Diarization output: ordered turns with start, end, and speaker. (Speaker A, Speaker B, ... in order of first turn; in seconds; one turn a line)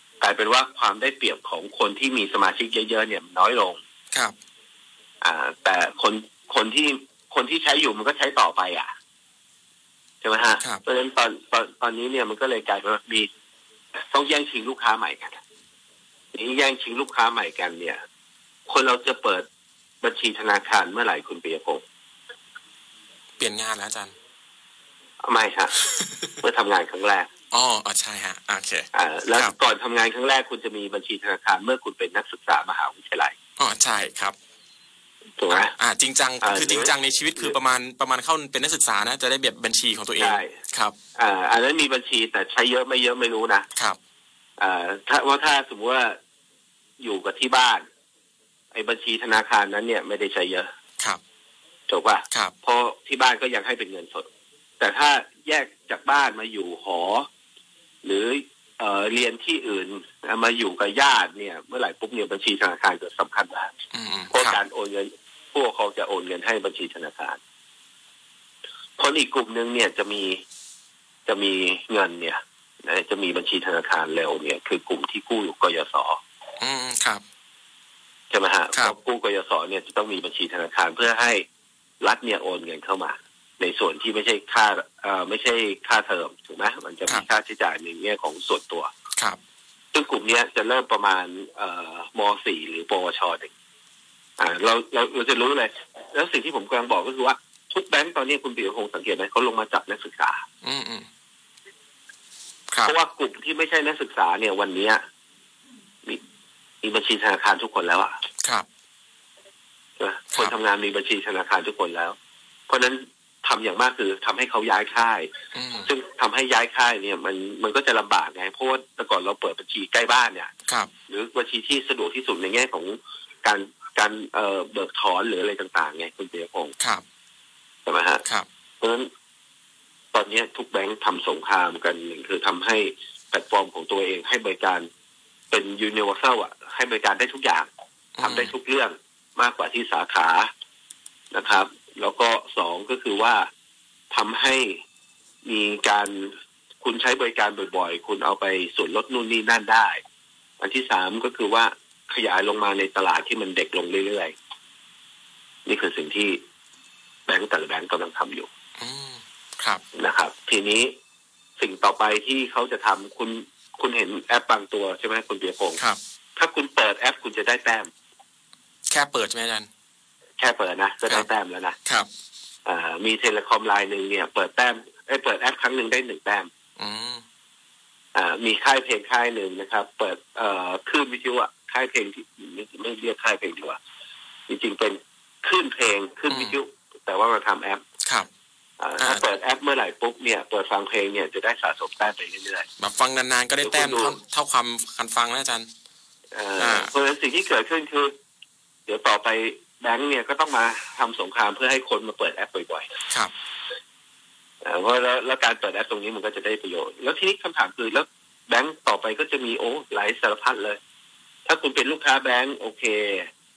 Speaker A: 0.2-3.8
Speaker A: 5.2-8.9
Speaker A: 10.2-13.3
Speaker A: 14.1-15.4
Speaker A: 16.3-18.0
Speaker A: 18.7-19.5
Speaker A: 20.0-21.8
Speaker B: 23.4-24.1
Speaker A: 25.2-25.7
Speaker B: 25.8-26.3
Speaker A: 26.4-27.3
Speaker B: 27.5-29.5
Speaker A: 28.9-33.3
Speaker B: 33.6-34.4
Speaker A: 35.4-35.7
Speaker B: 35.5-40.9
Speaker A: 36.4-37.5
Speaker A: 40.2-40.5
Speaker A: 41.1-43.7
Speaker A: 44.6-46.2
Speaker A: 47.0-47.9
Speaker A: 48.7-50.7
Speaker A: 51.9-54.3
Speaker A: 54.8-57.3
Speaker A: 58.0-63.7
Speaker B: 63.9-64.6
Speaker A: 64.3-67.4
Speaker A: 69.0-70.4
Speaker A: 71.2-76.2
Speaker B: 76.6-77.2
Speaker A: 78.3-81.5
Speaker A: 82.0-88.9
Speaker A: 89.9-93.5
Speaker A: 94.4-100.4
Speaker B: 100.6-101.1
Speaker B: 102.7-103.0
Speaker A: 102.8-105.0
Speaker A: 106.8-108.2
Speaker A: 110.0-112.2
Speaker A: 112.7-115.3
Speaker B: 115.5-115.9
Speaker A: 115.8-120.5
Speaker A: 121.1-126.7
Speaker B: 126.8-127.0
Speaker A: 127.8-128.2
Speaker A: 128.8-129.1
Speaker A: 130.1-134.9
Speaker A: 135.5-137.7
Speaker B: 138.2-138.5
Speaker A: 138.2-140.5
Speaker A: 141.3-143.5
Speaker A: 144.1-144.8
Speaker A: 145.4-150.0
Speaker A: 150.6-154.3
Speaker A: 155.7-156.4
Speaker A: 157.3-158.5
Speaker B: 158.8-159.8
Speaker A: 159.9-160.9
Speaker A: 161.6-165.8
Speaker A: 166.3-167.9
Speaker B: 168.9-169.7
Speaker A: 170.4-171.8
Speaker A: 172.6-176.5
Speaker B: 176.8-177.2
Speaker A: 178.1-183.8
Speaker A: 184.5-187.8
Speaker B: 186.3-186.6
Speaker B: 188.0-188.3
Speaker A: 188.8-192.7
Speaker B: 189.0-189.3
Speaker B: 192.8-195.7
Speaker A: 193.6-194.2
Speaker A: 196.3-198.1
Speaker B: 196.6-196.9
Speaker A: 198.8-202.9
Speaker A: 204.6-210.8
Speaker A: 211.4-213.3